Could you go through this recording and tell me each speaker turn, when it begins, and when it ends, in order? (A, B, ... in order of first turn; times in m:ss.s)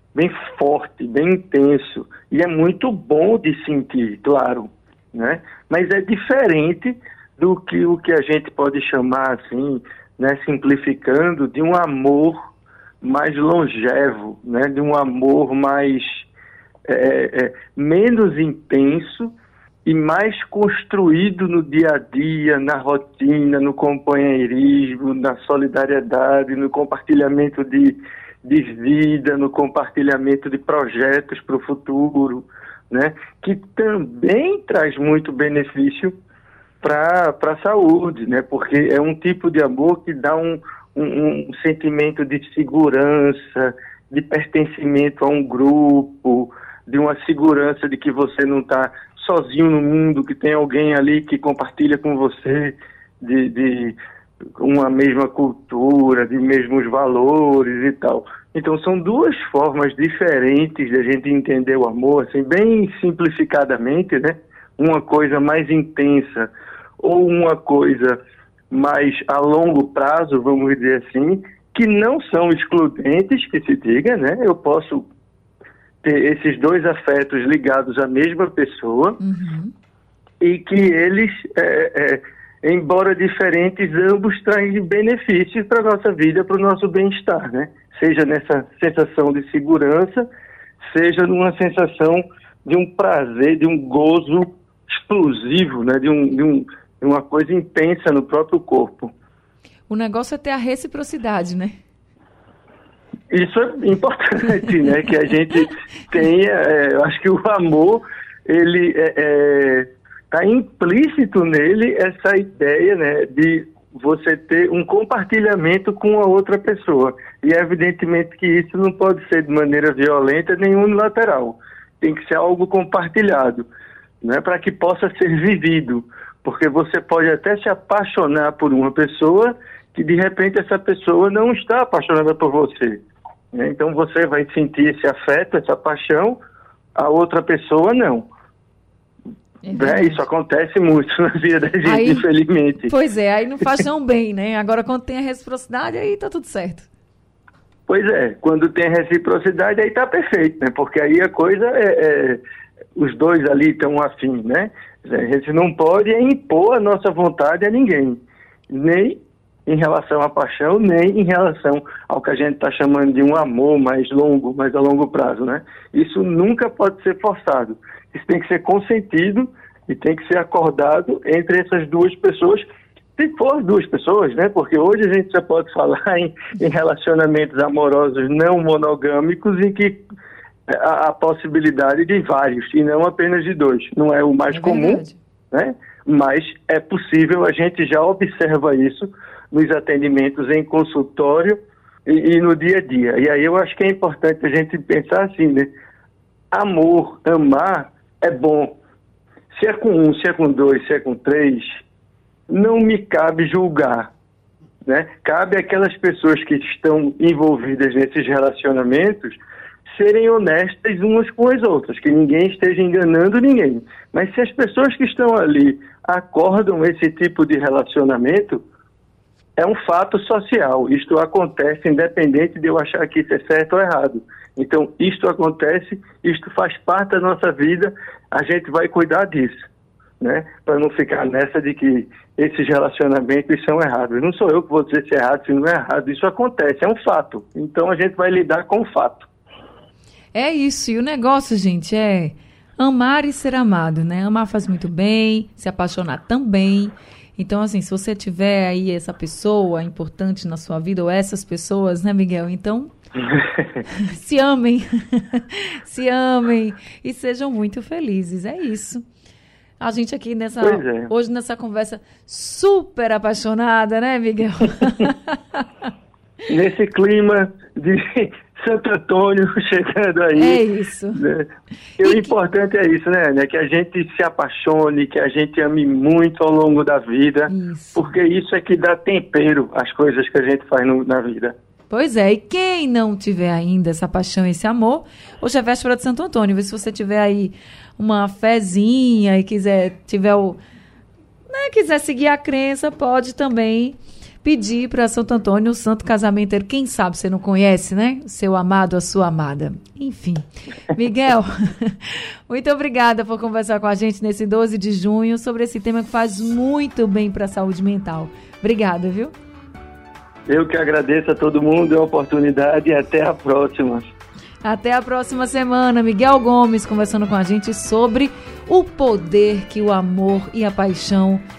0:00.2-0:12.5 A
0:13.0-0:16.3 A
0:16.9-0:19.3 A
0:19.8-0:36.1 A
0:36.8-0:54.0 A
0:54.6-1:08.2 A
1:08.7-1:15.1 A
1:16.0-1:19.2 A
1:19.2-1:19.7 B
1:20.4-1:30.3 A
1:30.8-1:39.1 A
1:39.9-1:41.8 B
1:43.3-2:03.7 A
2:04.2-2:13.0 A
2:13.5-2:16.4 A
2:17.0-2:18.3 A
2:19.6-2:20.2 B
2:19.7-2:22.9 A
2:21.8-2:22.3 B
2:22.8-2:26.9 B
2:27.9-2:32.4 A
2:33.0-2:38.2 A
2:38.7-2:52.7 A
2:53.2-3:00.0 A
3:00.7-3:15.7 A
3:04.5-3:05.2 B
3:16.5-3:18.7 A
3:19.5-3:21.8 A
3:22.5-3:24.1 A
3:24.8-3:38.6 A
3:39.6-3:49.6 A
3:50.2-3:59.3 A
4:00.3-4:12.9 B
4:13.8-4:19.0 B
4:19.8-4:25.6 B
4:20.6-4:21.1 A
4:26.5-4:31.5 A
4:30.4-4:31.2 B
4:32.0-4:41.5 A
4:32.0-4:32.4 B
4:37.5-4:38.1 B
4:41.9-4:50.6 B
4:51.5-5:09.3 B
5:10.5-5:14.0 A
5:14.6-5:21.4 B